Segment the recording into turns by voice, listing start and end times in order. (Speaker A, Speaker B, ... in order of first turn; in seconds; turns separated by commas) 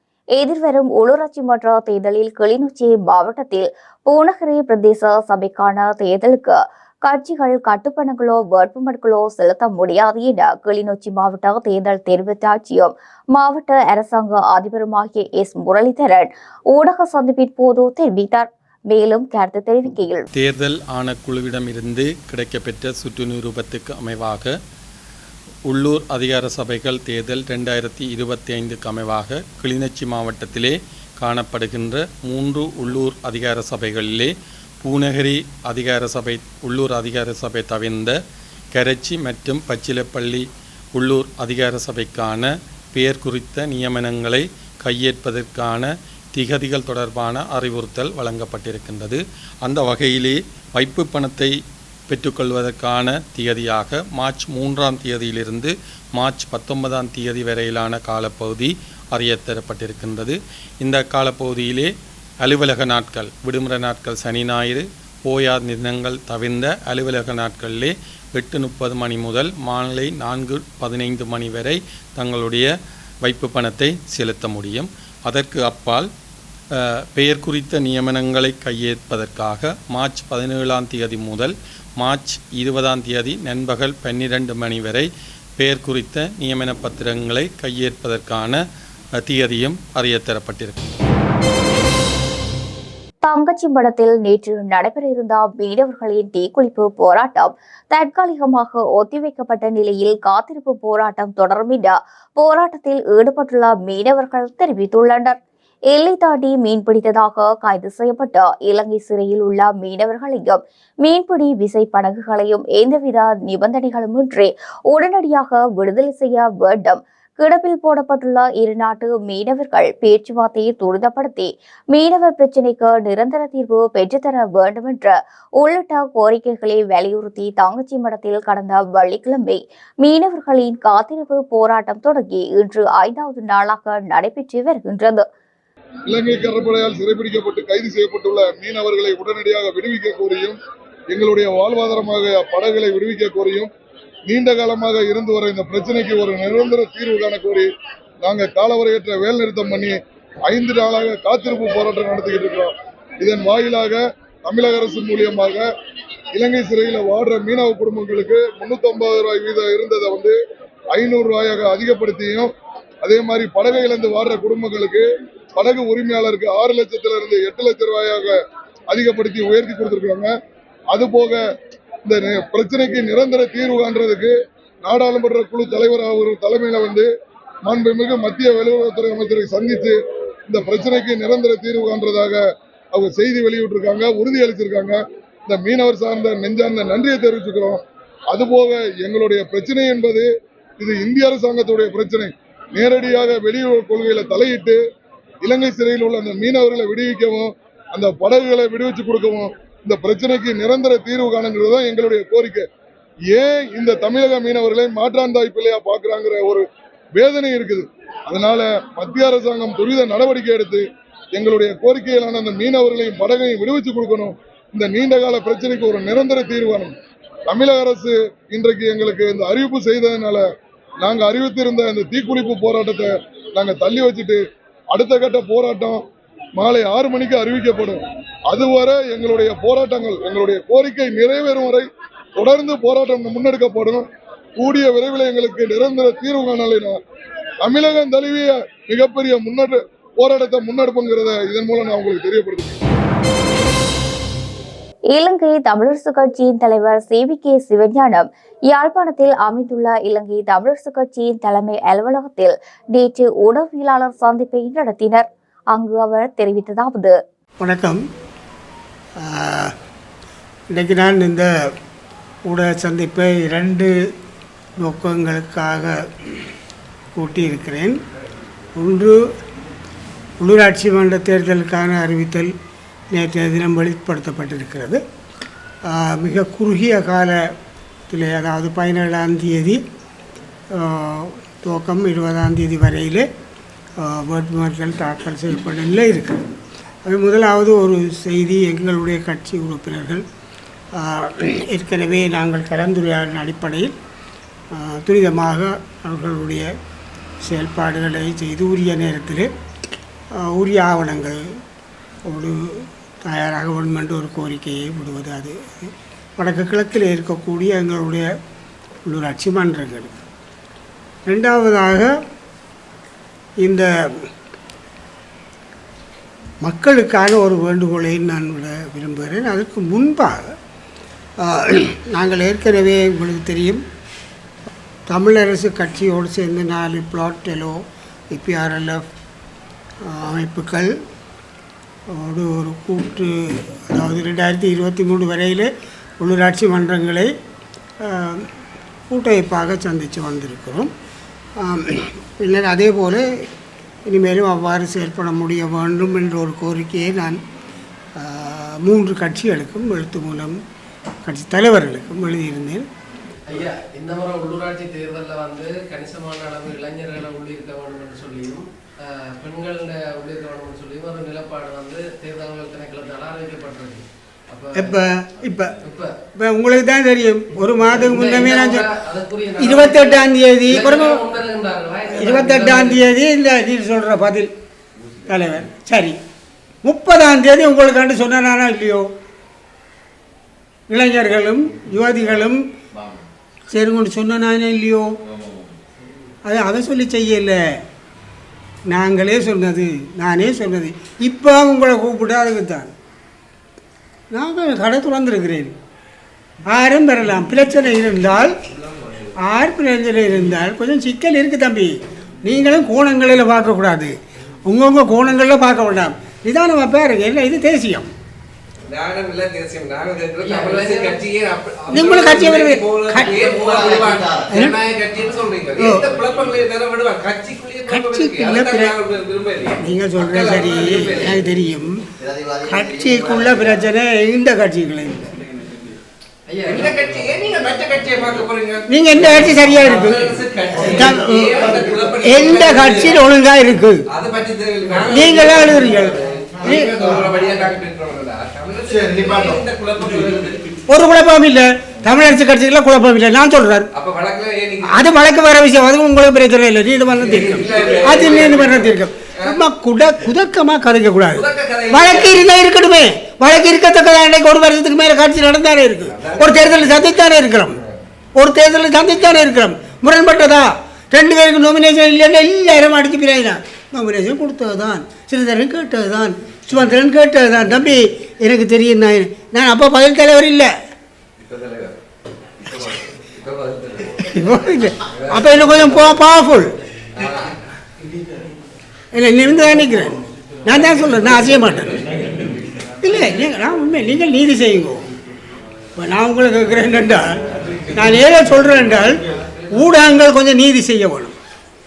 Speaker A: 0.4-20.3, Speaker B: 20.4-24.5, Speaker B: 25.7-34.3, Speaker B: 34.8-38.2, Speaker B: 38.7-51.5, Speaker B: 52.1-61.9, Speaker B: 62.4-72.7, Speaker B: 73.2-76.1, Speaker B: 76.8-85.1, Speaker B: 85.6-88.6, Speaker B: 89.2-91.0, Speaker A: 93.2-105.4, Speaker A: 105.9-135.3, Speaker C: 136.1-140.6, Speaker C: 141.1-143.7, Speaker C: 144.3-147.7, Speaker C: 148.2-150.0, Speaker C: 150.5-155.7, Speaker C: 156.3-160.4, Speaker C: 160.9-162.5, Speaker C: 163.0-165.1, Speaker C: 165.6-168.4, Speaker C: 168.9-170.3, Speaker C: 170.9-171.4, Speaker C: 172.1-177.1, Speaker C: 177.7-182.4, Speaker C: 182.9-194.8, Speaker C: 195.4-202.7, Speaker C: 203.3-216.9, Speaker C: 217.5-220.5, Speaker C: 221.0-224.4, Speaker C: 224.9-226.0, Speaker C: 226.6-234.1, Speaker C: 234.6-237.0, Speaker C: 237.6-242.8, Speaker A: 245.1-257.1, Speaker D: 257.6-258.0, Speaker D: 259.2-259.7, Speaker D: 260.7-261.5, Speaker D: 262.5-263.9, Speaker D: 264.8-266.1, Speaker D: 267.1-268.0, Speaker D: 268.8-269.2, Speaker D: 270.4-272.5, Speaker D: 273.1-275.0, Speaker D: 275.9-277.4, Speaker D: 278.1-279.8, Speaker D: 280.7-283.3, Speaker D: 284.0-286.4, Speaker D: 287.1-290.2, Speaker D: 291.0-293.9, Speaker D: 294.7-296.7, Speaker D: 297.4-299.5, Speaker D: 300.4-301.4, Speaker D: 302.3-308.3, Speaker D: 309.1-310.2, Speaker D: 311.3-312.1, Speaker D: 313.6-314.3, Speaker D: 316.6-320.5, Speaker D: 321.4-323.8, Speaker D: 325.1-329.1, Speaker D: 330.1-331.0, Speaker D: 332.1-337.3, Speaker D: 338.0-338.5, Speaker D: 339.1-340.9, Speaker D: 341.6-343.4, Speaker D: 344.1-347.4, Speaker D: 348.2-350.6, Speaker D: 351.3-352.9, Speaker E: 353.5-365.0, Speaker D: 364.8-365.8, Speaker E: 365.8-366.1, Speaker D: 366.4-368.9, Speaker E: 367.8-373.1, Speaker D: 369.6-371.2, Speaker D: 372.1-374.5, Speaker D: 375.3-376.2, Speaker D: 376.8-379.1, Speaker D: 380.9-382.6, Speaker D: 383.7-385.1, Speaker D: 386.4-387.8, Speaker D: 388.9-392.9, Speaker D: 394.3-395.8, Speaker D: 396.7-398.6, Speaker F: 398.7-399.3, Speaker D: 399.4-408.1, Speaker F: 408.9-421.4, Speaker E: 410.4-411.2, Speaker D: 411.9-413.5, Speaker D: 414.5-414.8, Speaker D: 415.8-416.1, Speaker D: 417.9-418.9, Speaker D: 419.8-422.0, Speaker D: 422.6-425.3, Speaker E: 426.5-427.3, Speaker F: 426.6-433.2, Speaker D: 428.9-434.0, Speaker F: 434.1-440.8, Speaker D: 435.1-437.1, Speaker D: 440.9-443.9, Speaker F: 443.9-445.2, Speaker D: 444.9-457.8, Speaker F: 447.2-449.6, Speaker F: 451.3-452.5, Speaker F: 456.1-457.1, Speaker F: 457.7-458.0, Speaker D: 458.4-470.7, Speaker F: 471.4-472.0, Speaker F: 472.6-476.2, Speaker D: 474.3-476.8, Speaker F: 477.2-477.6, Speaker D: 479.1-482.0, Speaker D: 483.0-485.0, Speaker D: 486.0-491.4